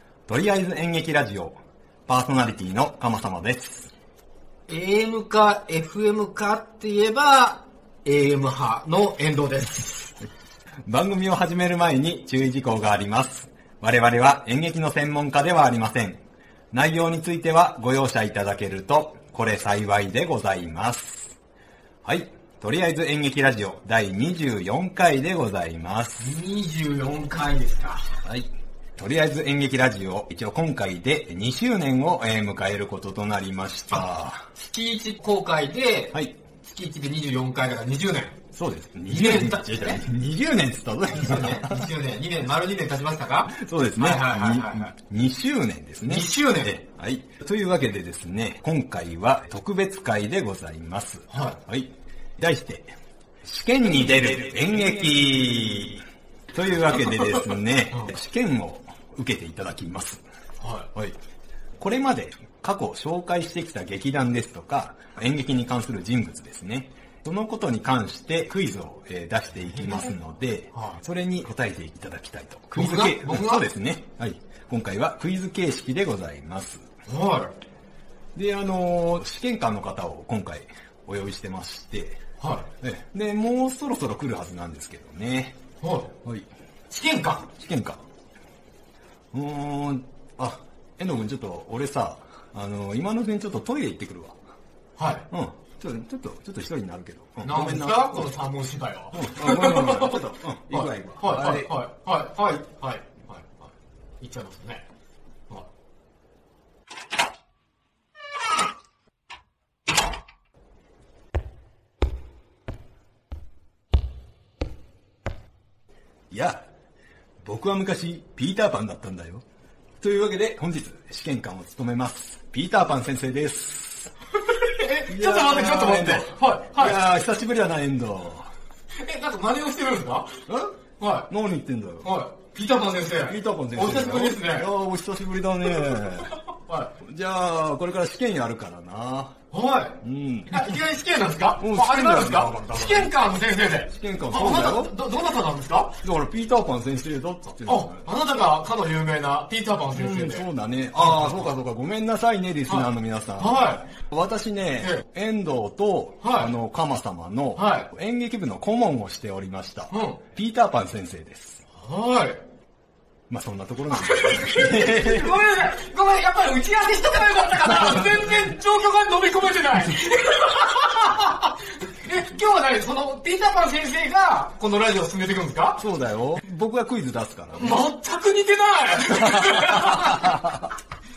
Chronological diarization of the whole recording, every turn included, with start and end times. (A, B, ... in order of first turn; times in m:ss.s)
0:00.3-0:03.9 A
0:04.7-0:10.2 B
0:10.8-0:21.4 A
0:22.0-0:26.3 A
0:26.2-0:28.2 B
0:28.2-0:34.5 A
0:34.6-0:38.4 B
0:36.1-0:36.4 A
0:38.5-0:41.9 A
0:39.1-0:40.0 B
0:41.1-0:44.9 B
0:43.5-1:00.2 A
0:46.0-0:46.8 B
0:51.3-0:51.6 B
0:54.0-0:54.4 B
1:00.6-1:00.9 B
1:01.8-1:16.9 A
1:12.8-1:13.6 B
1:17.1-1:17.5 B
1:18.3-1:22.2 A
1:22.4-1:22.7 B
1:22.8-1:25.6 A
1:25.8-1:26.1 B
1:26.9-1:27.5 B
1:27.5-1:28.0 A
1:29.3-1:34.4 A
1:35.0-1:35.3 B
1:35.3-1:38.3 A
1:37.4-1:43.7 B
1:39.1-1:41.7 A
1:44.2-1:44.8 B
1:56.3-1:56.6 A
1:57.4-1:59.4 A
2:00.0-2:04.1 A
2:04.5-2:07.0 B
2:05.1-2:08.5 A
2:09.0-2:10.4 B
2:10.5-2:10.8 A
2:11.0-2:11.3 B
2:11.3-2:12.1 A
2:12.0-2:14.7 B
2:13.2-2:16.3 A
2:15.9-2:17.0 B
2:17.0-2:19.4 A
2:19.5-2:26.0 B
2:20.0-2:20.8 A
2:21.6-2:23.1 A
2:23.9-2:24.9 A
2:26.0-2:28.0 A
2:27.7-2:31.5 B
2:29.9-2:41.6 A
2:32.7-2:33.9 B
2:36.2-2:36.5 B
2:37.6-2:37.9 B
2:39.9-2:40.2 B
2:41.7-2:42.4 B
2:43.3-2:45.4 A
2:43.9-2:55.8 B
2:47.6-2:48.3 A
2:55.8-2:57.9 A
2:57.6-3:00.3 B
2:59.1-3:00.7 A